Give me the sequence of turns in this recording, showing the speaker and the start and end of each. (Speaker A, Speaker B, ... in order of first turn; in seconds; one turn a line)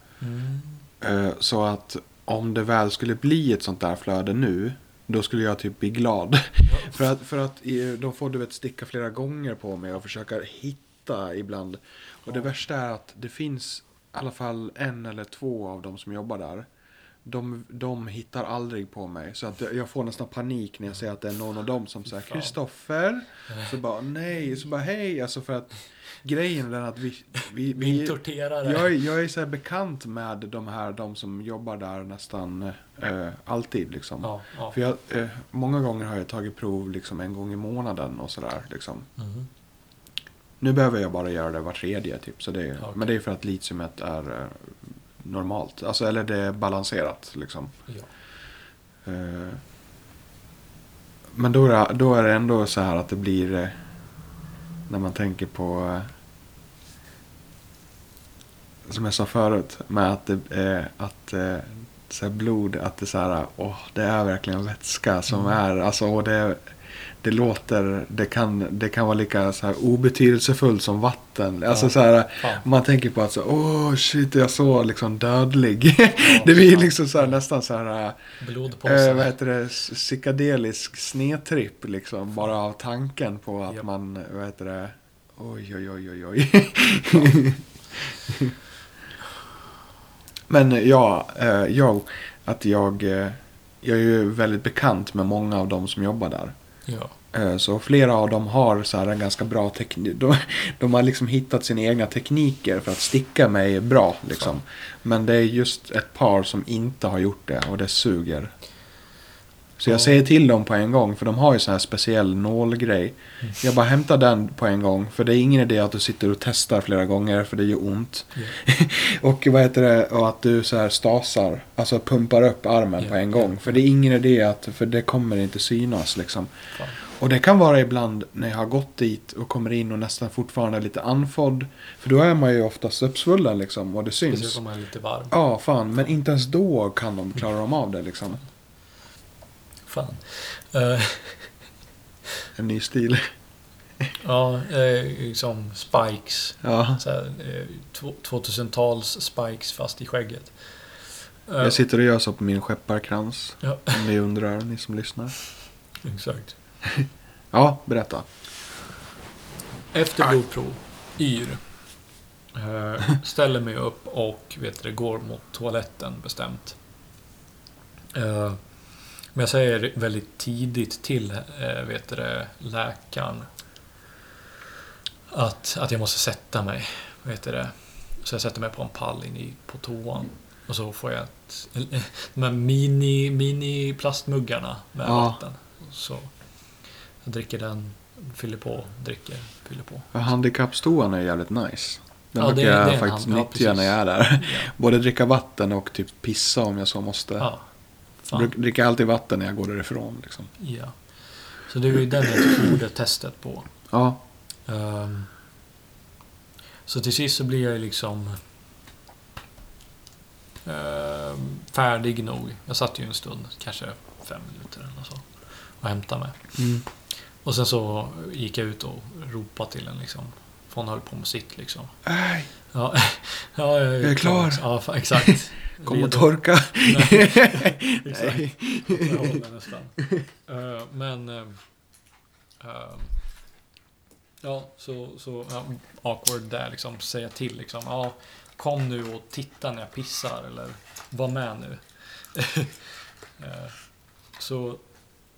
Speaker A: 0.2-0.9
Speaker B: 1.0-16.7
Speaker A: 6.7-7.0
Speaker B: 17.2-39.1
Speaker A: 22.2-22.5
Speaker A: 27.7-28.9
Speaker A: 34.2-34.8
Speaker A: 39.2-39.5
Speaker B: 40.6-47.7
Speaker A: 42.8-43.1
Speaker B: 49.0-49.6
Speaker B: 51.3-53.8
Speaker B: 54.9-56.1
Speaker B: 58.9-78.2
Speaker A: 65.3-65.6
Speaker A: 71.7-72.7
Speaker A: 76.2-77.4
Speaker A: 78.4-79.3
Speaker B: 78.8-88.5
Speaker B: 90.5-96.5
Speaker A: 96.9-97.1
Speaker B: 97.3-108.5
Speaker B: 109.8-126.5
Speaker A: 109.9-110.2
Speaker A: 123.0-123.8
Speaker B: 127.0-134.6
Speaker A: 134.3-135.4
Speaker B: 135.3-138.4
Speaker A: 139.9-141.5
Speaker B: 142.6-143.3
Speaker A: 144.2-150.5
Speaker B: 146.6-147.0
Speaker A: 151.5-151.8
Speaker B: 151.6-155.3
Speaker A: 153.6-154.0
Speaker A: 156.0-156.6
Speaker B: 156.8-158.3
Speaker A: 159.9-161.6
Speaker A: 162.5-166.8
Speaker A: 168.1-168.6
Speaker A: 169.3-173.5
Speaker A: 175.3-186.3
Speaker B: 185.0-185.4
Speaker A: 187.2-190.2
Speaker B: 190.1-197.5
Speaker A: 192.4-194.7
Speaker A: 197.4-197.7
Speaker A: 198.2-198.5
Speaker B: 198.3-200.5
Speaker A: 200.6-201.0
Speaker A: 201.7-203.7
Speaker B: 203.9-204.2
Speaker A: 204.7-205.3
Speaker A: 206.9-208.4
Speaker A: 210.7-215.3
Speaker A: 215.8-216.5
Speaker B: 216.6-216.8
Speaker A: 217.4-221.9
Speaker B: 222.1-222.5
Speaker A: 222.7-231.6
Speaker B: 224.0-229.4
Speaker A: 232.6-233.1
Speaker A: 234.4-243.8
Speaker A: 244.4-244.8